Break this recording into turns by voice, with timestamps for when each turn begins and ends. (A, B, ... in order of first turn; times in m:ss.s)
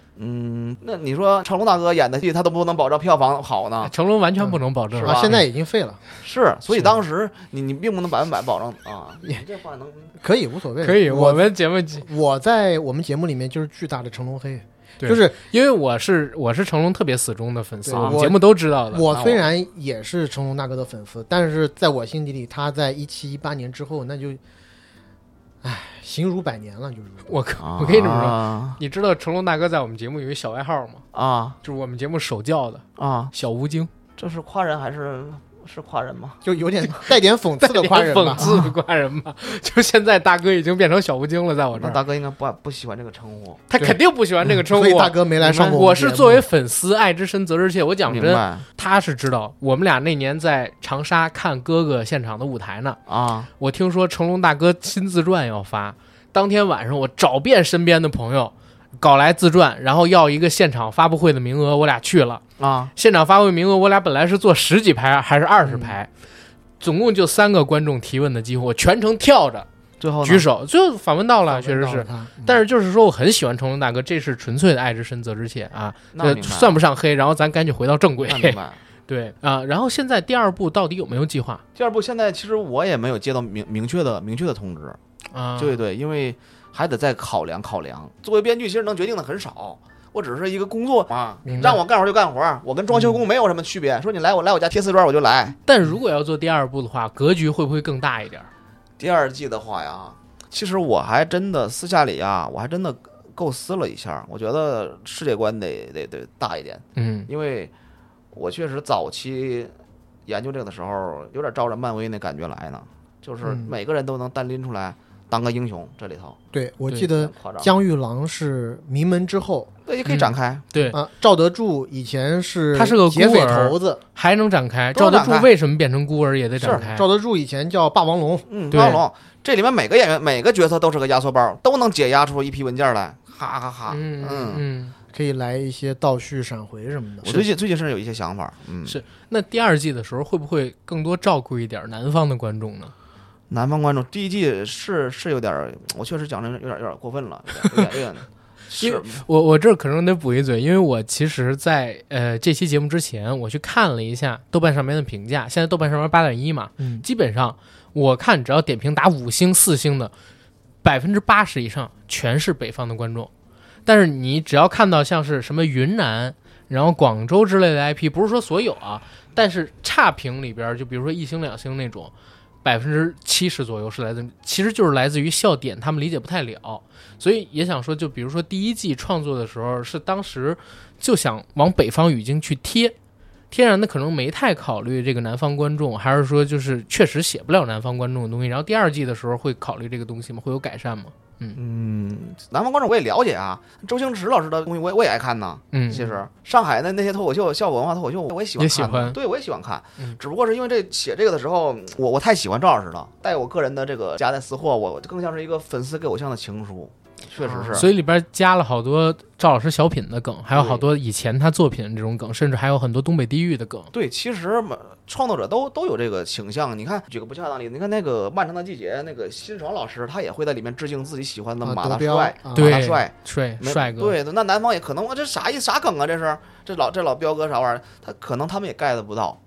0:00.2-0:03.9 A
0:03.8-0:05.4 B
0:04.4-0:06.0 C
0:05.0-0:05.4 A
0:06.2-0:10.1 A
0:10.2-0:15.4 C
0:10.8-0:12.0 B
0:15.0-0:19.0 B
0:17.8-0:24.4 C
0:17.9-0:18.2 A
0:19.1-0:19.4 A
0:25.6-0:27.3 C
0:27.2-0:31.0 B
0:27.6-0:28.8 A
0:31.1-0:31.6 A
0:31.6-0:33.9 B
0:33.0-0:33.3 A
0:34.2-0:36.4 A
0:36.4-0:38.4 C
0:37.6-0:42.0 B
0:41.7-0:43.9 A
0:43.7-0:53.0 B
0:44.7-0:46.4 C
0:48.1-0:48.6 A
0:53.1-0:53.5 A
0:53.6-1:02.4 B
1:02.6-1:02.9 A
1:02.9-1:06.1 B
1:05.6-1:05.9 C
1:06.8-1:09.7 B
1:10.0-1:10.5 A
1:10.2-1:21.6 B
1:11.5-1:12.6 C
1:16.1-1:16.8 A
1:18.3-1:18.8 A
1:21.8-1:25.0 A
1:25.3-1:25.8 B
1:25.6-1:35.6 A
1:31.5-1:31.8 C
1:31.5-1:31.8 B
1:35.6-1:38.5 B
1:39.0-1:47.7 A
1:47.0-1:47.3 B
1:48.3-1:49.7 A
1:50.3-1:56.4 A
1:53.4-1:53.7 C
1:56.5-1:59.7 C
1:57.1-1:57.7 A
1:59.8-2:00.7 A
2:00.0-2:01.0 B
2:00.9-2:04.0 C
2:02.7-2:07.1 B
2:04.9-2:05.5 A
2:06.6-2:06.9 A
2:06.7-2:08.5 C
2:08.5-2:14.6 A
2:08.7-2:09.0 B
2:13.9-2:14.9 B
2:15.1-2:17.5 C
2:17.2-2:19.0 A
2:18.8-2:22.9 B
2:23.5-2:29.2 A
2:28.8-2:40.1 B
2:36.8-2:37.0 C
2:40.8-2:43.3 B
2:43.8-2:52.1 B
2:52.6-3:02.9 B
3:03.5-3:11.6 B
3:11.6-3:27.9 A
3:15.7-3:16.0 B
3:18.6-3:19.2 B
3:27.4-3:27.8 C
3:27.7-3:33.9 B
3:30.5-3:30.8 A
3:33.9-3:49.4 A
3:41.6-3:42.8 C
3:42.5-3:44.2 B